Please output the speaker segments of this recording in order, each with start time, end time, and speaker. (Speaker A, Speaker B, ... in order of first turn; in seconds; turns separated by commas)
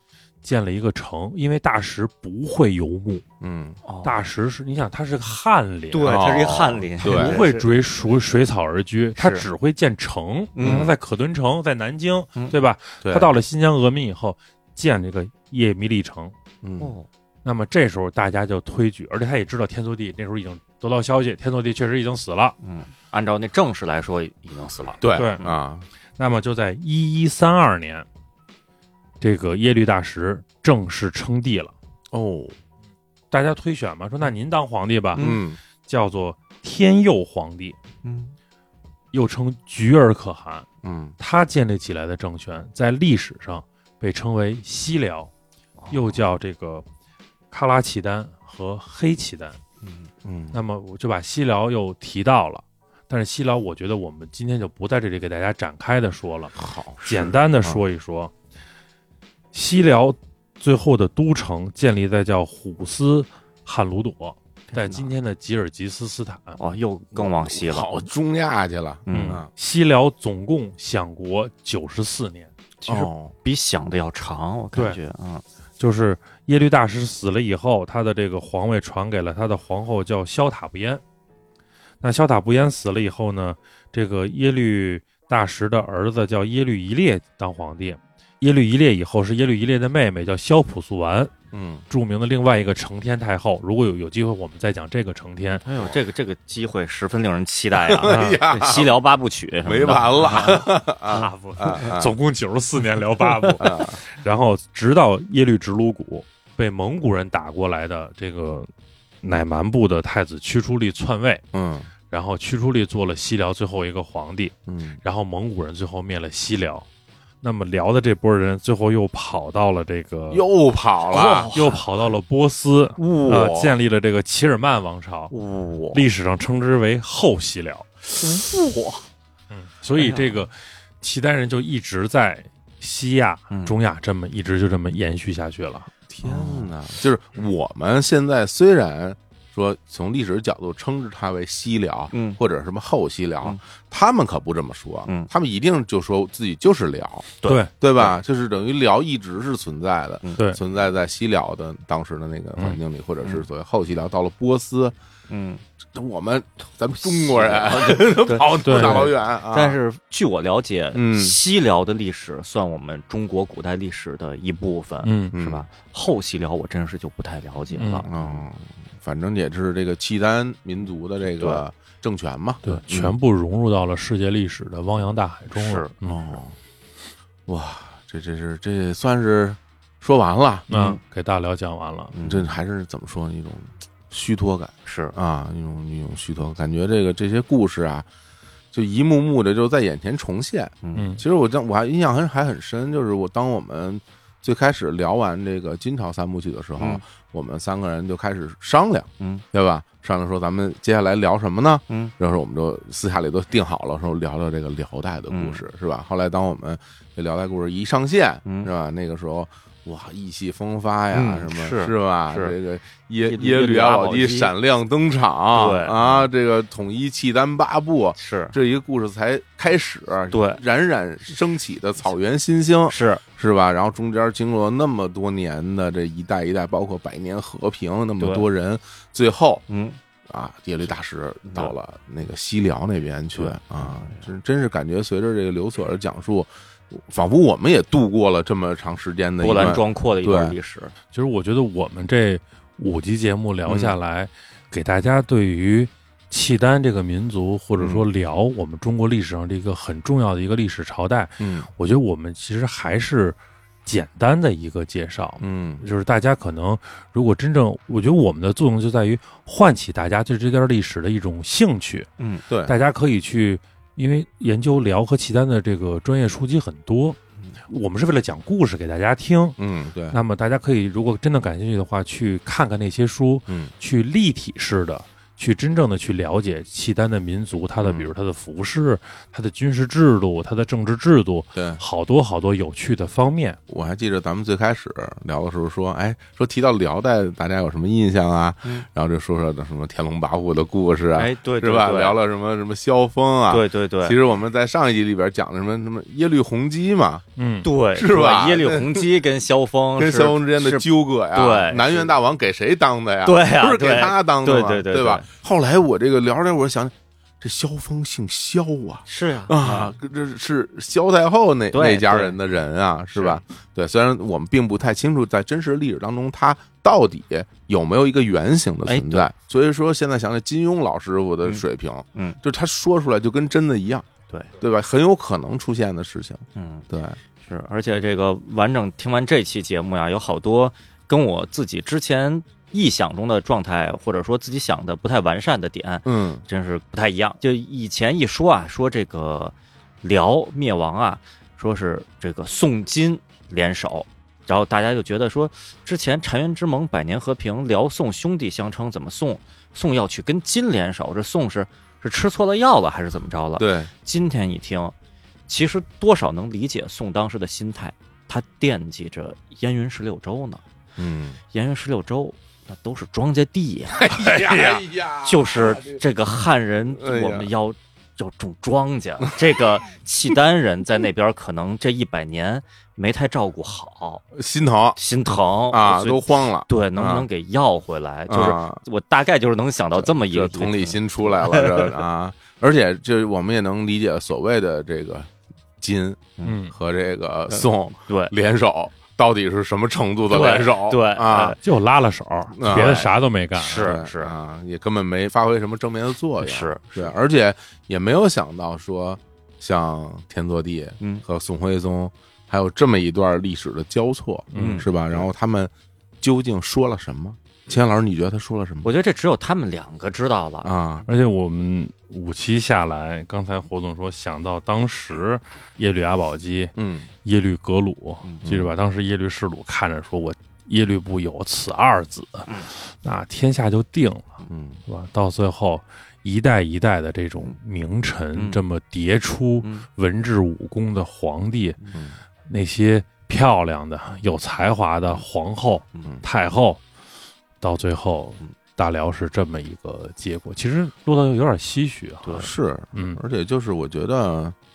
Speaker A: 0.4-3.2, Speaker B: 3.4-3.8, Speaker C: 3.8-4.2, Speaker A: 4.0-6.4, Speaker C: 5.9-7.7, Speaker B: 6.0-7.4, Speaker A: 7.0-16.3, Speaker C: 9.2-9.4, Speaker C: 10.5-10.9, Speaker B: 10.6-10.9, Speaker B: 13.0-13.3, Speaker B: 16.6-16.9, Speaker C: 16.8-17.1, Speaker A: 17.4-22.6, Speaker C: 22.6-25.6, Speaker B: 25.0-25.9, Speaker A: 25.1-25.4, Speaker A: 26.2-28.1, Speaker A: 29.2-31.7, Speaker B: 32.1-32.5, Speaker A: 33.3-35.3, Speaker C: 35.1-35.4, Speaker B: 35.2-35.6, Speaker A: 35.8-37.8, Speaker C: 38.0-38.3, Speaker A: 39.1-40.7, Speaker B: 40.8-41.1, Speaker A: 41.2-45.3, Speaker A: 45.9-46.8, Speaker A: 47.5-49.6, Speaker B: 50.2-50.6, Speaker A: 50.5-58.3, Speaker B: 56.5-57.8, Speaker A: 59.5-66.6, Speaker C: 64.7-65.0, Speaker C: 66.6-68.1, Speaker B: 67.1-69.5, Speaker C: 69.1-69.4, Speaker A: 69.1-72.5, Speaker C: 72.8-75.4, Speaker B: 72.8-73.3, Speaker A: 75.8-81.0, Speaker A: 82.0-91.3, Speaker B: 91.5-91.8, Speaker A: 91.9-95.7, Speaker C: 95.7-100.6, Speaker B: 97.7-99.0, Speaker A: 98.1-98.4, Speaker B: 99.6-102.1, Speaker A: 101.1-108.7, Speaker B: 103.6-104.0, Speaker A: 109.2-111.4, Speaker B: 111.5-111.9, Speaker A: 112.1-116.9, Speaker B: 114.7-115.0, Speaker A: 117.4-120.4, Speaker B: 120.3-121.5, Speaker C: 121.1-121.8, Speaker A: 121.5-125.3, Speaker C: 123.0-123.7, Speaker C: 125.3-126.0, Speaker A: 125.9-128.4, Speaker C: 128.2-129.0, Speaker A: 129.5-135.9, Speaker C: 130.0-130.4, Speaker C: 133.5-133.8, Speaker B: 136.1-154.9, Speaker C: 136.2-136.7, Speaker C: 142.1-142.4, Speaker C: 147.4-148.1, Speaker A: 147.4-147.7, Speaker C: 155.3-155.6, Speaker B: 155.9-159.8, Speaker C: 157.0-168.4, Speaker A: 158.6-159.1, Speaker B: 160.9-161.4, Speaker A: 165.0-165.3, Speaker B: 165.3-165.7, Speaker A: 167.7-168.1, Speaker B: 168.1-173.1, Speaker C: 171.4-171.6, Speaker A: 172.6-176.4, Speaker C: 175.5-175.9, Speaker B: 176.0-176.5, Speaker B: 177.5-180.7, Speaker A: 180.7-182.1, Speaker C: 180.7-181.0, Speaker C: 182.1-182.5, Speaker B: 182.2-188.1, Speaker C: 184.8-185.1, Speaker B: 188.7-229.6, Speaker C: 190.8-191.1, Speaker A: 190.9-191.2, Speaker C: 196.8-197.0, Speaker C: 205.3-205.6, Speaker C: 211.1-212.5, Speaker C: 213.2-214.5, Speaker C: 215.5-216.3, Speaker C: 218.2-218.5, Speaker C: 220.3-220.6, Speaker C: 222.9-223.2, Speaker C: 228.2-228.4, Speaker C: 229.7-230.0, Speaker B: 230.3-240.5, Speaker C: 233.4-234.3, Speaker C: 239.4-240.9, Speaker A: 241.1-262.1, Speaker B: 243.7-243.9, Speaker B: 247.8-248.0, Speaker B: 251.4-251.7, Speaker B: 255.4-255.8, Speaker C: 262.2-262.4, Speaker B: 262.5-262.7, Speaker A: 262.6-269.6, Speaker B: 269.6-270.2, Speaker A: 270.1-283.6, Speaker B: 277.8-278.1, Speaker B: 281.5-281.8, Speaker B: 283.7-297.2, Speaker C: 291.1-292.2, Speaker C: 293.5-294.2, Speaker A: 297.4-297.7, Speaker C: 297.6-302.1, Speaker B: 297.9-299.1, Speaker B: 300.0-324.1, Speaker C: 303.2-305.2, Speaker C: 309.1-309.9, Speaker C: 311.7-312.4, Speaker C: 313.1-313.4, Speaker C: 318.9-319.3, Speaker B: 324.6-327.2, Speaker C: 326.5-326.9, Speaker C: 327.4-354.9, Speaker B: 336.0-336.4, Speaker B: 353.6-353.9, Speaker C: 355.5-360.6, Speaker B: 361.0-361.4, Speaker C: 361.5-374.2, Speaker B: 363.9-366.0, Speaker B: 367.0-367.5, Speaker B: 374.3-375.0, Speaker C: 374.9-382.0, Speaker B: 375.7-377.3, Speaker B: 378.3-378.8, Speaker B: 380.0-391.6, Speaker A: 386.4-386.7, Speaker C: 387.5-388.3, Speaker C: 390.3-391.6, Speaker A: 391.6-393.9, Speaker B: 392.5-393.1, Speaker C: 392.6-394.3, Speaker B: 393.7-408.9, Speaker C: 396.4-397.1, Speaker A: 404.5-404.8, Speaker C: 404.6-405.2, Speaker C: 408.8-410.8, Speaker B: 410.6-411.1, Speaker A: 411.1-431.8, Speaker B: 416.8-417.1, Speaker B: 418.4-418.7, Speaker B: 424.5-424.8, Speaker C: 428.3-428.6, Speaker A: 432.5-436.8, Speaker A: 437.6-443.2, Speaker B: 442.3-444.6